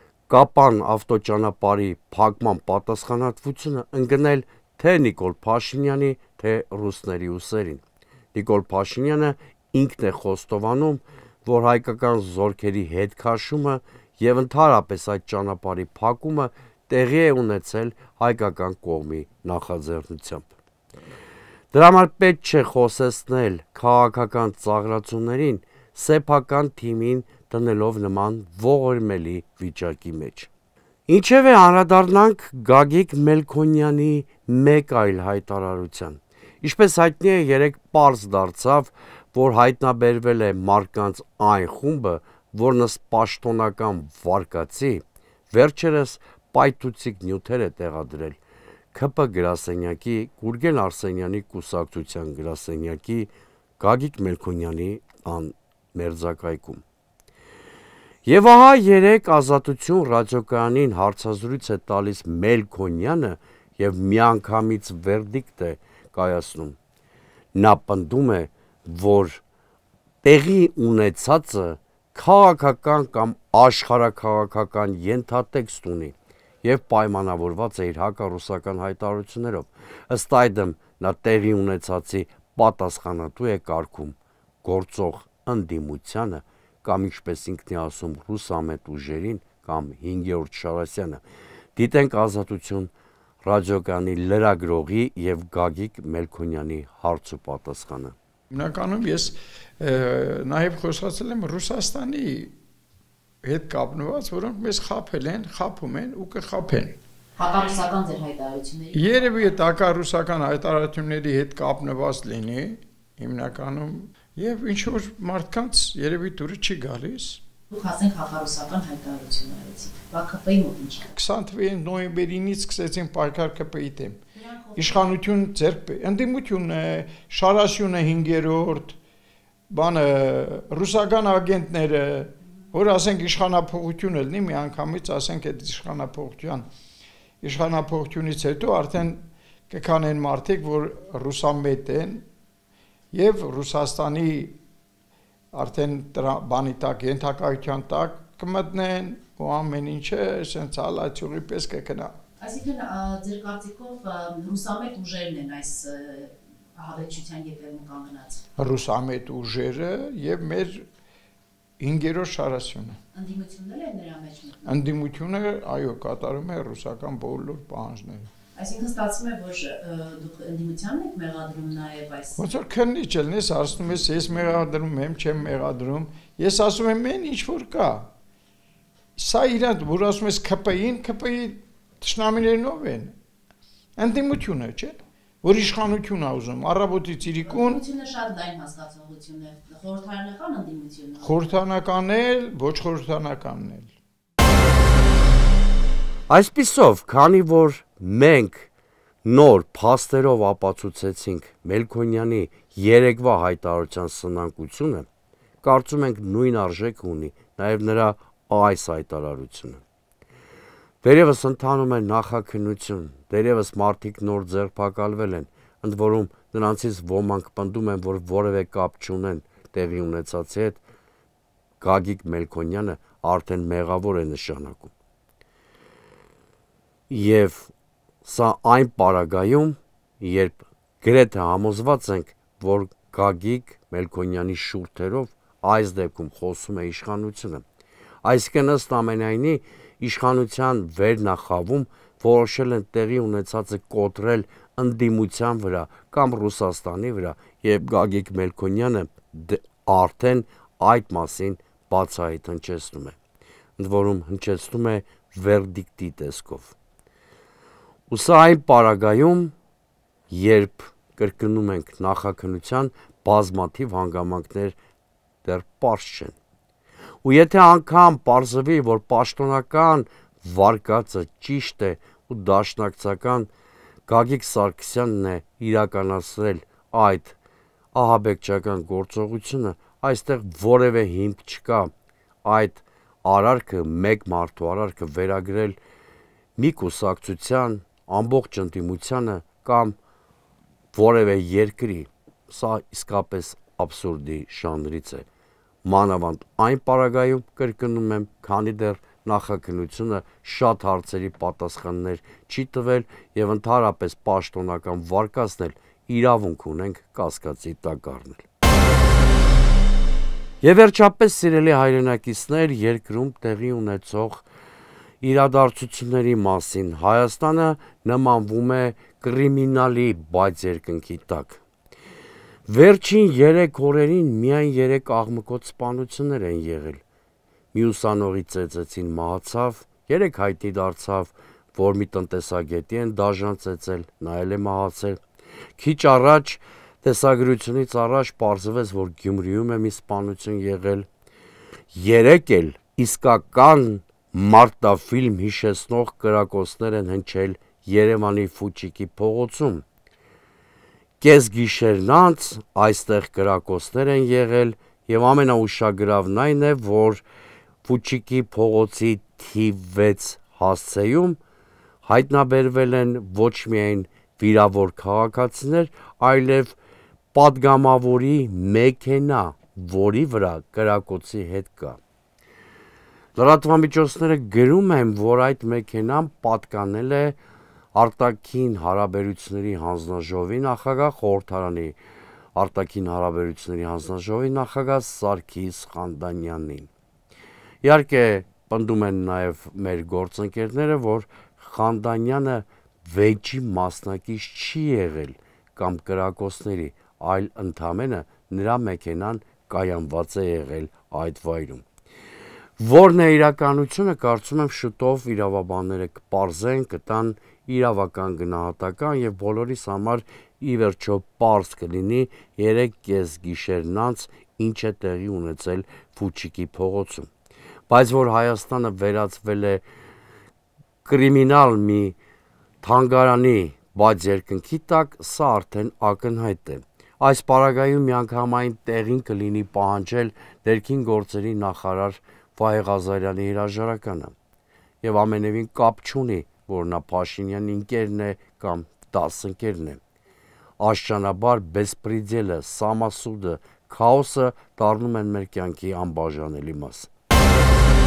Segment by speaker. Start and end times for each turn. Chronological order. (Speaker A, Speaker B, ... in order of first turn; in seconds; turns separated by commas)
Speaker A: 0.3-7.8, Speaker A: 8.3-20.5, Speaker A: 21.7-30.5, Speaker A: 31.1-48.4, Speaker A: 48.9-56.8, Speaker A: 58.2-66.8, Speaker A: 67.5-69.4, Speaker A: 70.2-91.2, Speaker A: 91.8-92.9, Speaker A: 93.4-98.2, Speaker B: 98.5-102.5, Speaker B: 103.4-106.9, Speaker C: 107.4-109.6, Speaker B: 108.9-117.4, Speaker C: 117.7-121.1, Speaker B: 121.2-124.2, Speaker C: 124.3-125.1, Speaker B: 124.8-129.0, Speaker B: 129.7-136.6, Speaker B: 137.4-142.2, Speaker B: 143.1-144.5, Speaker B: 145.5-152.1, Speaker C: 152.4-158.4, Speaker B: 158.6-160.8, Speaker B: 161.8-163.0, Speaker C: 163.1-164.8, Speaker B: 164.7-168.3, Speaker C: 168.6-172.4, Speaker B: 172.4-178.1, Speaker B: 179.2-183.1, Speaker B: 184.0-187.8, Speaker C: 187.4-191.6, Speaker B: 191.2-193.9, Speaker A: 196.3-198.7, Speaker A: 199.2-205.1, Speaker A: 205.6-209.8, Speaker A: 211.0-220.8, Speaker A: 221.8-224.9, Speaker A: 227.1-227.7, Speaker A: 228.2-237.6, Speaker A: 238.2-253.2, Speaker A: 253.8-256.8, Speaker A: 258.1-259.5, Speaker A: 260.3-264.8, Speaker A: 265.4-266.3, Speaker A: 267.2-273.5, Speaker A: 274.1-277.4, Speaker A: 277.9-281.9, Speaker A: 282.4-285.8, Speaker A: 286.6-290.0, Speaker A: 290.9-295.2, Speaker A: 295.8-308.4, Speaker A: 310.6-314.4, Speaker A: 315.2-321.6, Speaker A: 322.7-327.0, Speaker A: 327.7-335.2, Speaker A: 335.8-341.1, Speaker A: 341.9-349.8, Speaker A: 351.2-357.2, Speaker A: 357.8-361.4, Speaker A: 362.0-366.8, Speaker A: 367.3-372.0, Speaker A: 373.4-377.4, Speaker A: 377.9-382.0, Speaker A: 382.6-386.9, Speaker A: 387.8-401.9, Speaker A: 402.8-417.3, Speaker A: 417.9-419.8, Speaker A: 421.1-422.2, Speaker A: 422.8-434.3, Speaker A: 435.0-440.0, Speaker A: 440.8-447.1